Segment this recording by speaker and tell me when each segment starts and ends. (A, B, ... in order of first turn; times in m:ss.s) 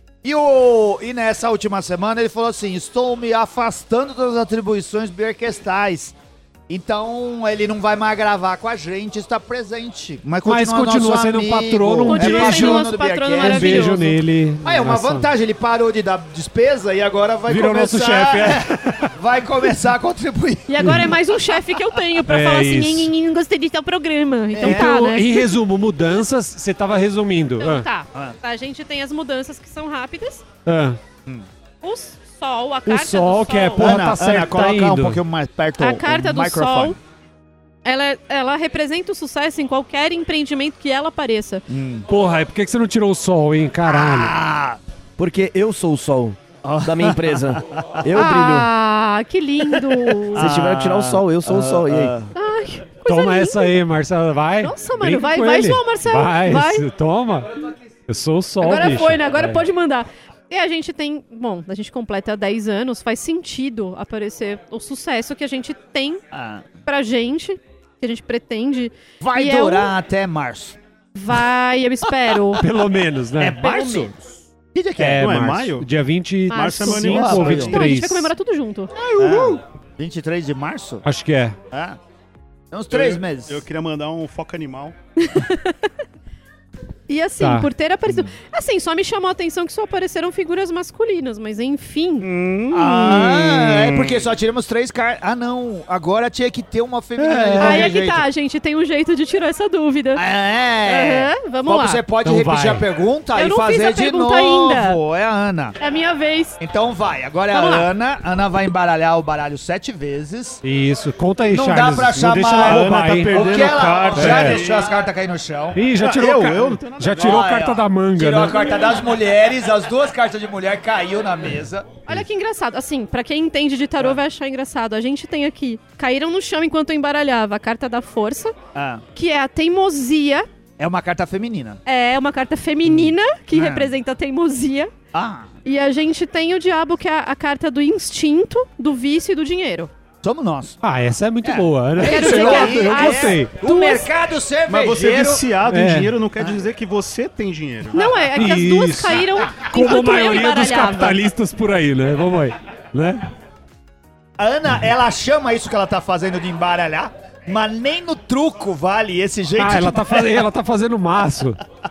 0:00.2-0:06.2 A
0:06.7-0:14.1 A
0:10.4-0:15.3 B
0:12.1-0:14.2 C
0:14.6-0:21.6 A
0:17.5-0:19.1 B
0:20.7-0:25.5 C
0:20.8-0:21.1 B
0:22.2-0:23.1 B
0:24.5-0:24.9 A
0:24.6-0:27.9 B
0:27.6-0:30.4 C
0:30.7-0:31.0 B
0:31.8-0:33.9 C
0:32.9-0:35.2 B
0:33.8-0:37.0 A
0:35.8-0:37.0 C
0:37.8-0:41.6 C
0:41.7-0:42.1 A
0:42.1-0:44.4 B
0:43.9-0:44.8 A
0:45.2-0:48.7 D
0:46.6-0:48.0 A
0:48.1-0:50.5 C
0:50.2-0:52.3 A
0:50.3-0:52.2 D
0:52.4-0:53.8 C
0:53.1-0:59.6 B
0:54.6-0:56.9 C
0:58.6-1:06.2 C
1:06.3-1:06.6 A
1:06.9-1:09.9 C
1:09.2-1:10.8 A
1:11.2-1:12.7 C
1:12.6-1:13.6 B
1:13.4-1:15.6 A
1:13.6-1:14.1 C
1:15.0-1:18.3 B
1:15.2-1:15.9 E
1:16.5-1:19.6 C
1:16.5-1:17.7 E
1:17.0-1:17.8 A
1:19.2-1:21.0 A
1:21.0-1:21.6 B
1:21.7-1:22.0 A
1:22.7-1:23.6 A
1:22.9-1:25.0 E
1:25.2-1:25.9 C
1:27.1-1:32.3 C
1:27.4-1:27.7 B
1:32.2-1:34.2 E
1:32.7-1:38.2 A
1:37.2-1:37.9 B
1:37.6-1:40.2 C
1:40.2-1:45.8 A
1:40.8-1:42.0 C
1:42.2-1:42.9 B
1:43.4-1:45.0 C
1:45.8-1:46.6 C
1:46.6-1:50.6 A
1:47.5-1:47.9 C
1:50.6-1:54.7 B
1:51.5-1:56.0 A
1:52.6-1:55.1 E
1:55.8-1:58.6 B
1:56.0-1:57.5 E
1:57.2-2:02.0 A
2:02.1-2:08.6 C
2:08.8-2:09.0 A
2:09.2-2:10.5 C
2:10.8-2:11.8 A
2:11.9-2:14.9 C
2:12.9-2:13.9 A
2:15.1-2:15.5 A
2:15.6-2:19.9 C
2:20.2-2:20.8 A
2:20.8-2:23.6 B
2:21.4-2:25.5 A
2:22.0-2:24.1 C
2:24.7-2:28.2 E
2:25.7-2:26.1 B
2:27.9-2:31.2 C
2:28.3-2:33.3 B
2:34.4-2:40.4 A
2:39.6-2:41.6 B